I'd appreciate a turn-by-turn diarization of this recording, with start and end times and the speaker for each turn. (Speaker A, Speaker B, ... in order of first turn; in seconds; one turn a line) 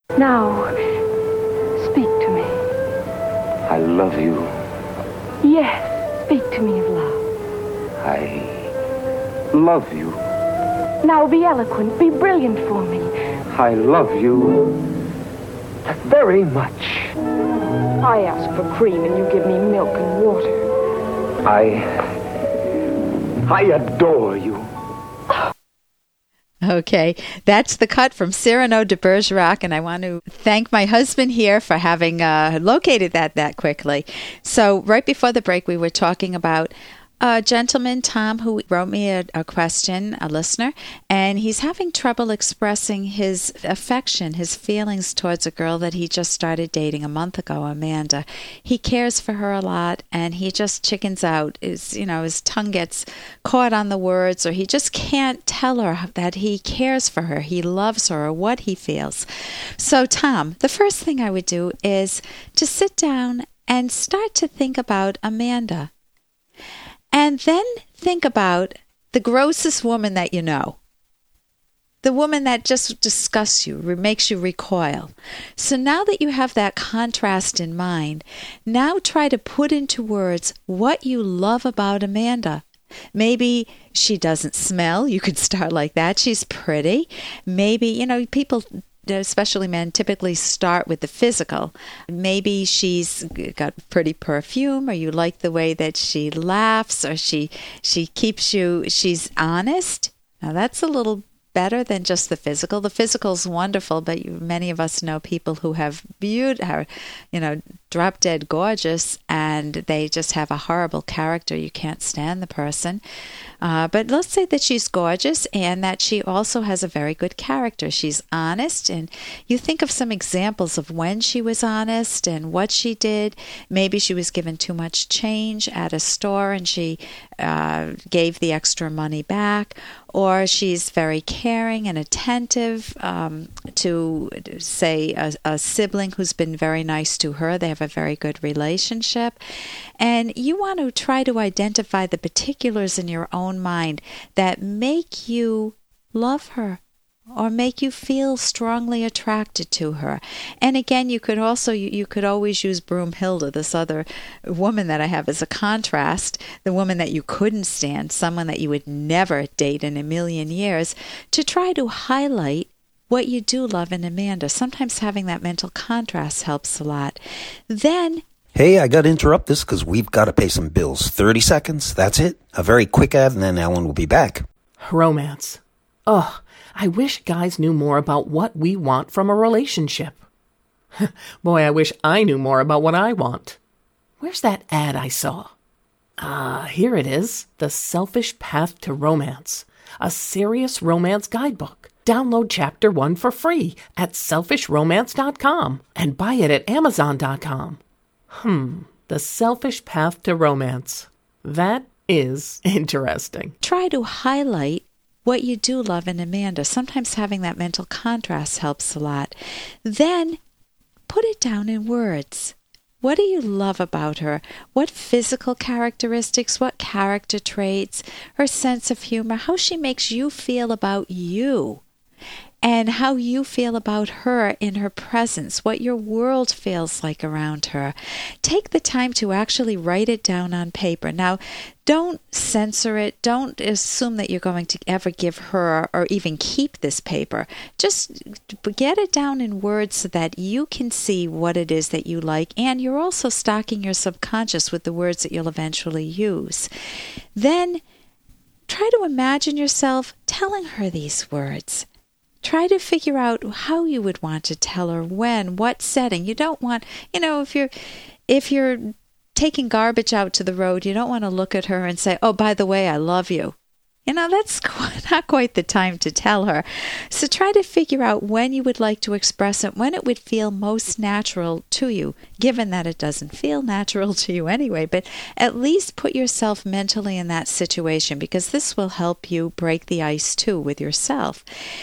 Speaker A: 0.2-0.7
Speaker A: 1.8-2.5
Speaker B: 3.7-4.5
Speaker A: 5.4-7.2
Speaker B: 8.0-8.7
Speaker B: 9.5-10.2
Speaker A: 11.0-13.1
Speaker B: 13.5-14.8
Speaker B: 15.9-17.1
Speaker A: 18.0-20.6
Speaker B: 21.4-22.2
Speaker B: 23.5-24.7
Speaker C: 26.6-59.2
Speaker C: 59.8-65.9
Speaker C: 67.1-70.8
Speaker C: 72.0-82.6
Speaker C: 83.2-113.0
Speaker C: 113.6-139.4
Speaker C: 140.0-146.8
Speaker C: 147.3-168.2
Speaker D: 168.6-174.4
Speaker E: 174.8-180.2
Speaker E: 181.0-183.6
Speaker E: 184.2-185.5
Speaker E: 186.2-197.8
Speaker E: 198.3-203.5
Speaker C: 203.6-210.4
Speaker C: 211.1-221.8
Speaker C: 222.6-246.7
Speaker C: 247.3-247.8
Speaker C: 248.7-251.9
Speaker C: 252.4-257.7
Speaker C: 258.3-263.6
Speaker C: 264.1-281.4